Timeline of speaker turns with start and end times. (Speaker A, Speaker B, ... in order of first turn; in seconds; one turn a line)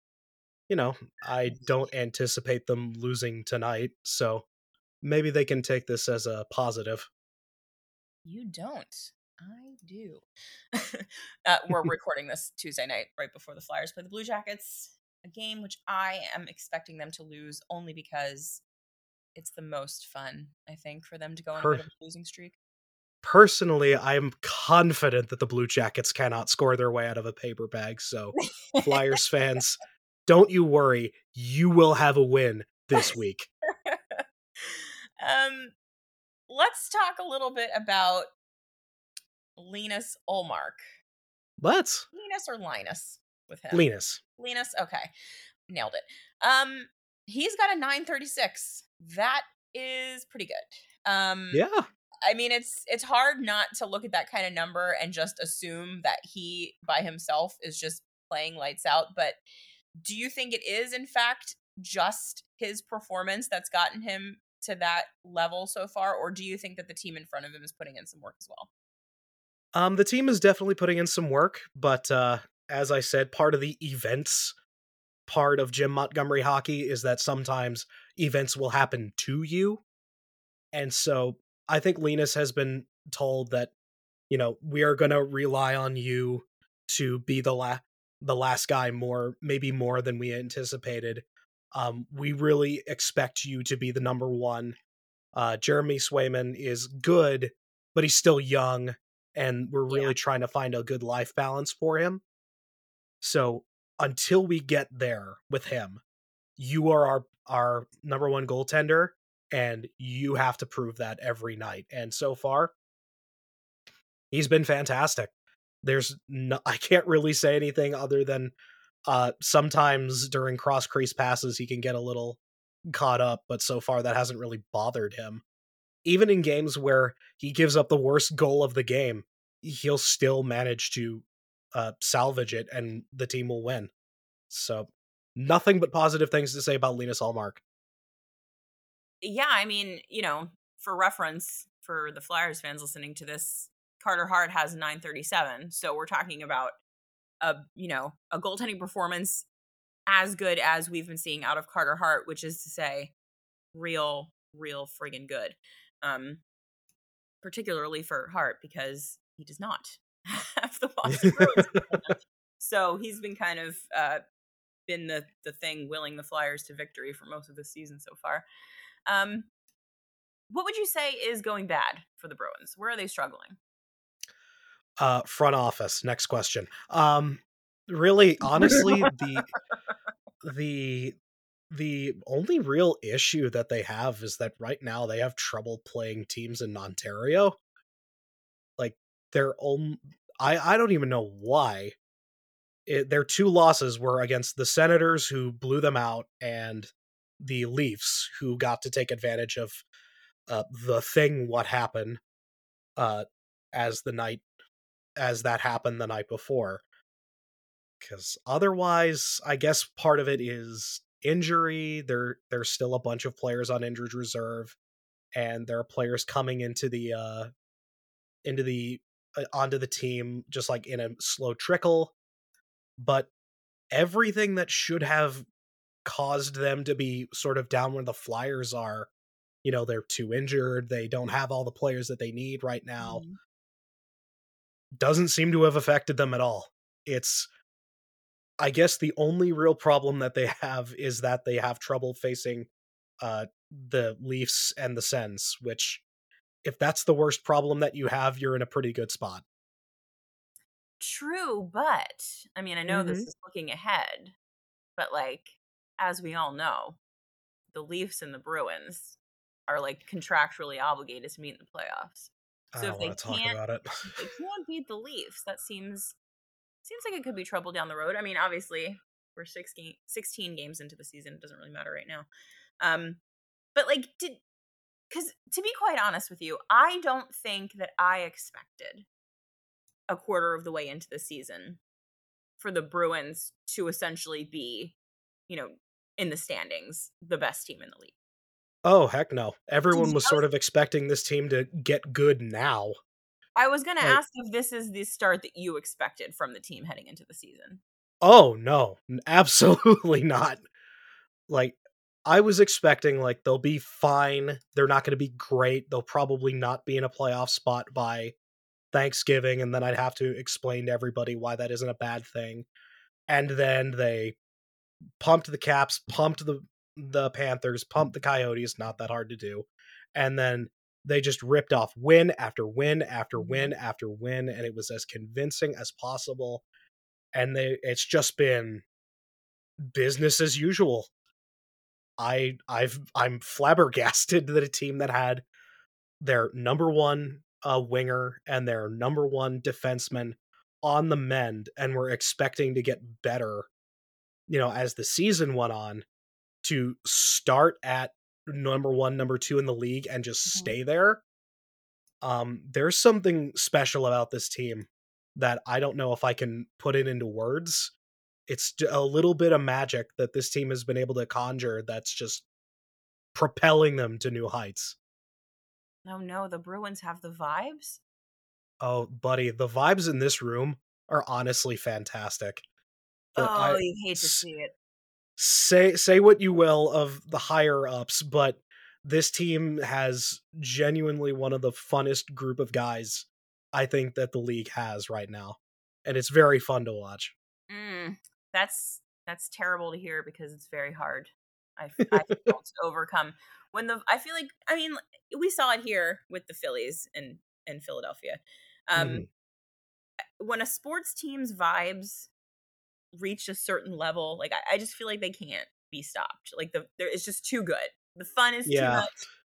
Speaker A: 0.7-4.5
Speaker A: 5.0-7.1
Speaker B: 8.2-18.6
Speaker B: 19.4-22.6
Speaker A: 21.6-21.9
Speaker A: 23.2-33.5
Speaker B: 28.4-29.2
Speaker B: 33.9-35.7
Speaker B: 36.5-38.3
Speaker B: 39.6-40.8
Speaker A: 41.6-42.1
Speaker B: 42.1-43.9
Speaker A: 43.7-44.2
Speaker B: 44.4-45.1
Speaker B: 45.7-51.6
Speaker A: 51.5-51.9
Speaker B: 52.2-59.4
Speaker B: 60.0-68.7
Speaker A: 69.7-74.5
Speaker A: 75.3-79.8
Speaker A: 80.7-83.7
Speaker A: 84.3-94.8
Speaker A: 95.3-102.2
Speaker B: 99.9-100.2
Speaker A: 103.2-106.0
Speaker A: 106.6-112.7
Speaker A: 114.3-115.3
Speaker A: 115.8-118.5
Speaker A: 119.1-125.4
Speaker A: 126.0-133.9
Speaker A: 134.5-137.6
Speaker B: 139.2-146.8
Speaker B: 147.4-149.5
Speaker B: 150.1-153.1
Speaker B: 153.7-156.4
Speaker B: 157.4-164.2
Speaker A: 161.1-162.0
Speaker B: 164.9-168.4
Speaker B: 169.1-169.5
Speaker B: 170.5-173.6
Speaker A: 175.0-179.5
Speaker B: 178.5-179.4
Speaker A: 180.4-181.2
Speaker A: 181.7-187.6
Speaker A: 188.8-192.0
Speaker A: 192.9-199.8
Speaker A: 200.5-202.2
Speaker A: 203.0-204.4
Speaker A: 205.2-206.8
Speaker A: 208.0-214.8
Speaker A: 215.3-217.5
Speaker A: 218.4-222.1
Speaker A: 223.0-223.3
Speaker A: 223.9-225.4
Speaker A: 226.1-229.1
Speaker A: 229.6-233.2
Speaker B: 233.0-233.4
Speaker A: 235.0-237.5
Speaker A: 238.6-242.7
Speaker A: 243.2-246.0
Speaker A: 246.6-249.4
Speaker B: 251.0-254.3
Speaker A: 252.9-253.3
Speaker B: 255.0-257.0
Speaker B: 257.7-259.2
Speaker B: 259.7-266.2
Speaker A: 262.7-264.2
Speaker B: 266.8-272.3
Speaker B: 272.8-273.2
Speaker B: 273.8-274.4
Speaker B: 275.1-279.1
Speaker B: 280.1-281.8
Speaker B: 282.6-285.0
Speaker B: 285.5-288.1
Speaker A: 288.9-292.9
Speaker B: 289.9-290.5
Speaker B: 293.6-297.8
Speaker A: 298.2-300.6
Speaker A: 301.5-308.4
Speaker A: 308.9-312.7
Speaker A: 313.3-314.4
Speaker A: 315.2-326.6
Speaker B: 323.4-323.7
Speaker A: 327.3-328.9
Speaker A: 329.8-331.1
Speaker A: 332.2-335.4
Speaker A: 336.2-343.7
Speaker A: 344.5-346.1
Speaker A: 346.6-351.2
Speaker B: 350.4-350.8
Speaker A: 352.2-357.9
Speaker A: 358.5-362.5
Speaker A: 363.3-365.0
Speaker B: 366.1-368.0
Speaker A: 368.8-372.6
Speaker A: 373.4-374.5
Speaker B: 373.4-374.7
Speaker A: 375.4-387.3
Speaker B: 387.7-399.3
Speaker A: 399.0-399.3
Speaker B: 400.4-402.3
Speaker B: 403.1-409.2
Speaker A: 408.7-409.1